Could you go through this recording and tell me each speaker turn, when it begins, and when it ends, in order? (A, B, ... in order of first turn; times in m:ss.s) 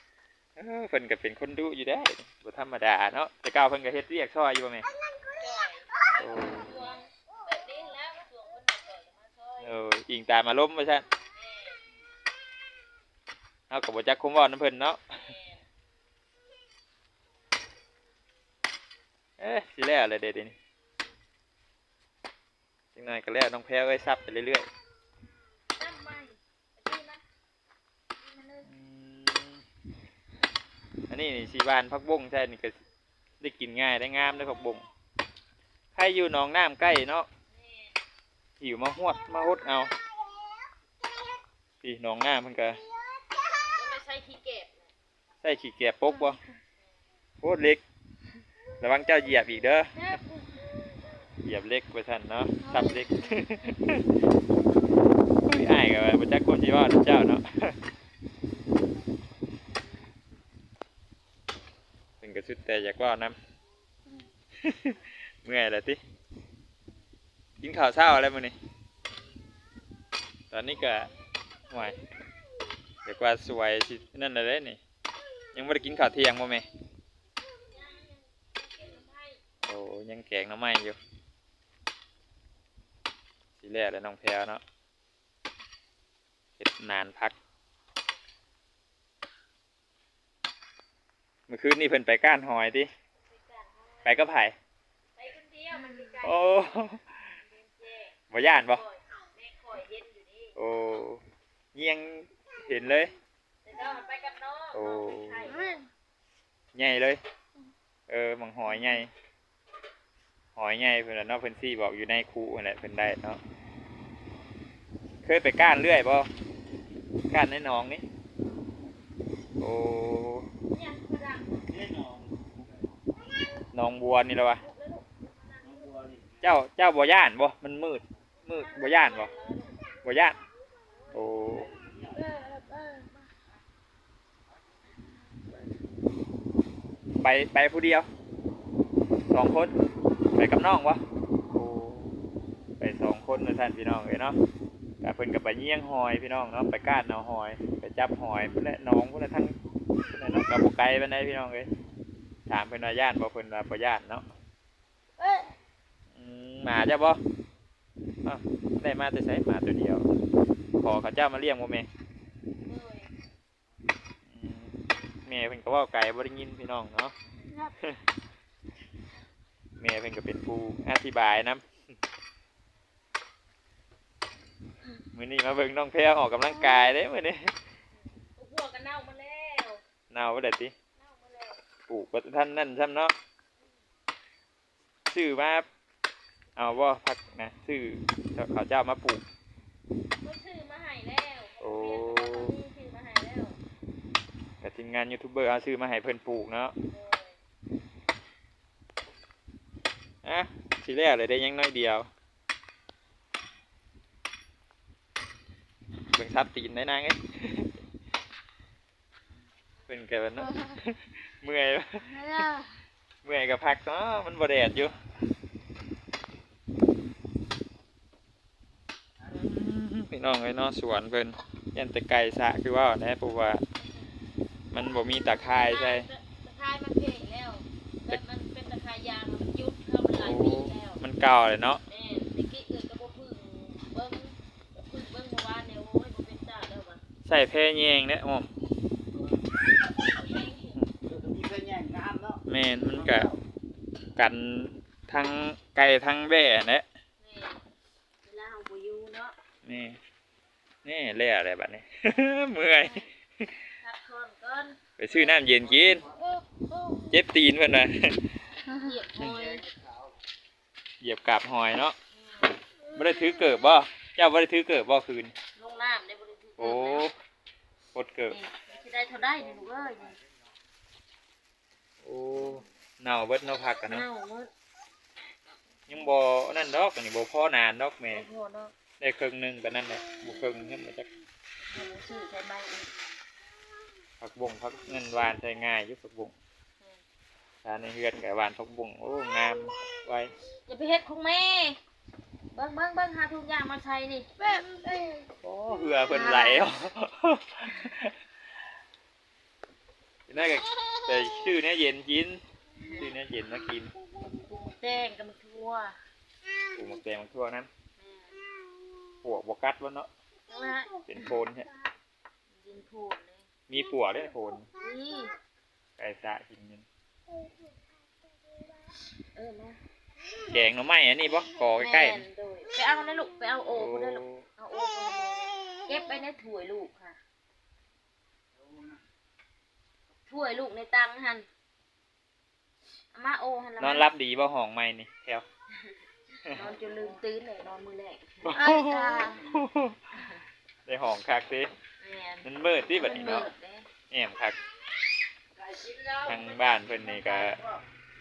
0:00.6-0:04.9 A
0:05.4-0:09.7 B
0:06.2-0:06.7 A
0:09.6-0:11.1 A
0:11.3-0:11.8 B
0:13.7-0:15.0 A
0:15.1-0:15.6 B
0:19.4-0:20.6 A
0:22.9-0:24.7 A
0:25.8-0:27.2 B
0:28.2-0:28.6 B
0:28.6-0:29.6 A
0:31.1-0:32.8 A
0:33.4-0:34.8 A
0:35.9-0:37.3 A
0:37.5-0:38.0 B
0:38.6-0:39.9 A
0:41.8-0:42.8 A
0:43.6-0:44.9 B
0:45.4-0:46.4 A
0:47.4-0:47.8 A
0:48.8-0:50.0 A
0:49.9-0:50.7 B
0:51.4-0:54.0 A
0:52.6-0:53.1 B
0:55.4-0:57.8 A
1:02.2-1:03.3 A
1:04.6-1:06.0 A
1:07.6-1:08.5 A
1:10.5-1:11.1 A
1:11.7-1:12.0 A
1:13.0-1:14.8 A
1:15.5-1:16.7 A
1:17.6-1:19.4 B
1:19.6-1:21.0 A
1:23.6-1:24.6 A
1:26.6-1:27.4 A
1:31.5-1:32.9 A
1:33.3-1:34.2 B
1:34.0-1:34.5 A
1:35.2-1:40.6 B
1:36.2-1:37.2 A
1:38.3-1:38.8 A
1:40.5-1:41.2 A
1:41.7-1:43.1 A
1:43.6-1:45.8 B
1:44.7-1:45.6 A
1:46.7-1:47.2 A
1:48.1-1:49.1 A
1:50.6-1:53.4 A
1:55.2-1:56.3 A
1:57.3-1:58.0 A
1:59.6-2:00.5 A
2:00.7-2:01.7 B
2:01.7-2:02.6 C
2:03.7-2:04.6 A
2:04.6-2:05.9 B
2:05.6-2:06.4 C
2:06.4-2:09.3 A
2:08.4-2:09.8 B
2:10.0-2:10.4 A
2:11.1-2:11.7 A
2:12.1-2:13.3 B
2:17.2-2:18.1 A
2:19.3-2:19.7 A
2:20.4-2:21.0 A
2:21.5-2:22.2 A
2:22.8-2:24.4 A
2:25.0-2:31.7 A
2:32.5-2:34.2 A
2:35.2-2:35.5 B
2:36.1-2:37.2 A
2:38.2-2:40.0 A
2:40.8-2:41.9 A
2:42.6-2:43.1 B
2:44.3-2:47.1 A
2:49.8-2:51.6 A
2:55.1-2:57.5 A
2:58.4-2:59.8 B
3:00.1-3:00.7 A
3:01.0-3:01.6 B
3:01.9-3:03.1 A
3:05.1-3:05.6 A
3:06.6-3:09.2 A
3:10.2-3:13.6 B
3:11.6-3:12.5 A
3:14.6-3:16.7 A
3:16.9-3:17.4 B
3:20.2-3:22.1 A
3:26.1-3:27.7 A
3:29.9-3:32.5 A
3:30.4-3:30.7 B
3:32.0-3:32.7 B
3:33.2-3:34.9 A
3:39.3-3:43.6 A
3:44.7-3:46.1 A
3:45.4-3:51.0 B
3:50.2-3:51.8 A
3:51.9-3:57.0 B
3:57.2-3:58.5 A
3:59.1-4:00.8 B
4:01.0-4:03.4 C
4:02.5-4:03.3 A
4:04.2-4:06.8 A
4:07.2-4:07.6 B
4:08.2-4:09.4 B
4:09.6-4:10.0 A
4:10.8-4:13.6 A
4:13.8-4:14.8 B
4:15.0-4:16.0 A
4:16.2-4:17.1 B
4:17.1-4:18.4 A
4:18.7-4:19.7 B
4:21.0-4:22.0 A
4:22.2-4:22.6 B
4:22.9-4:25.3 A
4:25.5-4:27.1 B
4:26.6-4:27.1 A
4:27.9-4:28.4 A
4:28.3-4:30.2 B
4:32.0-4:34.0 A
4:33.8-4:34.5 B
4:35.9-4:38.2 A
4:38.1-4:38.7 B
4:39.0-4:41.1 A
4:41.6-4:42.9 B
4:44.2-4:46.3 A
4:47.6-4:50.3 A
4:50.6-4:51.8 B
4:52.5-4:55.3 B
4:55.4-4:58.1 A
4:56.0-4:56.7 B
5:00.3-5:03.9 A
5:04.4-5:06.0 B
5:06.7-5:07.7 A
5:08.0-5:08.5 B
5:09.2-5:10.1 A
5:10.5-5:11.8 B
5:11.0-5:11.7 A
5:12.5-5:13.4 B
5:13.7-5:14.7 A
5:14.8-5:15.3 B
5:16.0-5:16.8 A
5:19.3-5:19.8 B
5:20.4-5:22.2 A
5:21.6-5:27.2 B
5:23.7-5:24.4 A
5:30.3-5:31.5 B
5:33.1-5:34.1 B
5:33.8-5:35.4 A
5:36.4-5:39.5 B
5:38.4-5:40.3 A
5:40.1-5:40.4 B
5:40.8-5:41.7 A
5:42.0-5:43.9 B
5:42.4-5:43.5 A
5:44.1-5:44.6 A
5:45.6-5:46.4 C
5:46.2-5:47.6 A
5:47.1-5:47.8 C